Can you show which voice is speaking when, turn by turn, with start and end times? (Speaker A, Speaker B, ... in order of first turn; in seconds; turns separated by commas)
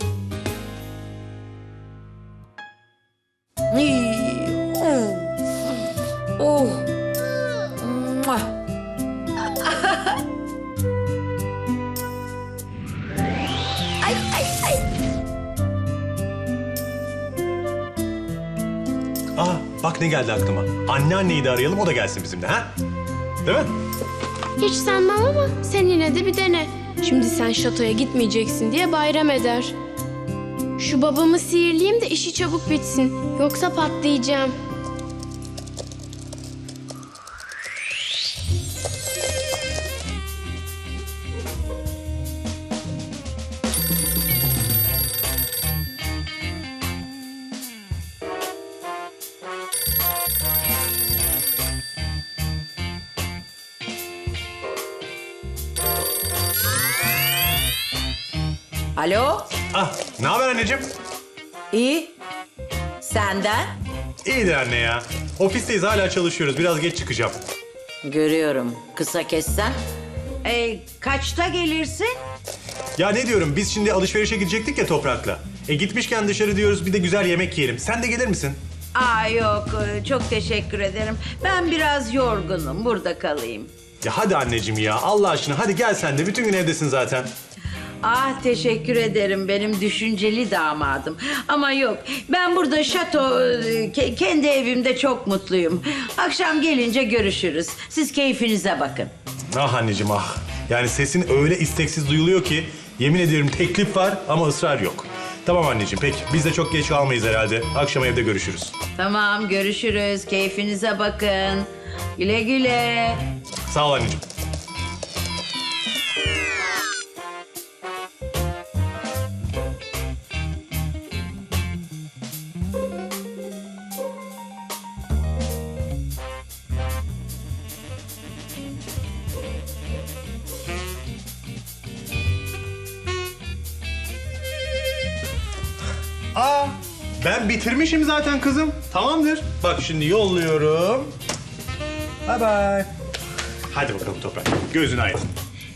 Speaker A: 3.7-5.3, Speaker A: 6.4-6.9, Speaker A: 7.8-8.5, Speaker A: 9.6-10.2, Speaker A: 14.0-14.8, Speaker B: 19.4-22.7, Speaker B: 23.4-23.7, Speaker C: 24.6-29.7, Speaker C: 30.8-34.5, Speaker A: 59.0-59.5, Speaker B: 59.7-60.9, Speaker A: 61.7-62.1, Speaker A: 63.0-63.7, Speaker B: 64.2-67.4, Speaker A: 68.0-69.8, Speaker A: 70.4-72.2, Speaker B: 73.0-78.6, Speaker A: 79.0-83.7, Speaker B: 84.0-87.3, Speaker A: 88.0-99.1, Speaker B: 99.5-108.7, Speaker A: 109.0-113.2, Speaker B: 113.7-114.2, Speaker B: 136.3-141.1, Speaker B: 142.3-142.9, Speaker B: 143.7-145.3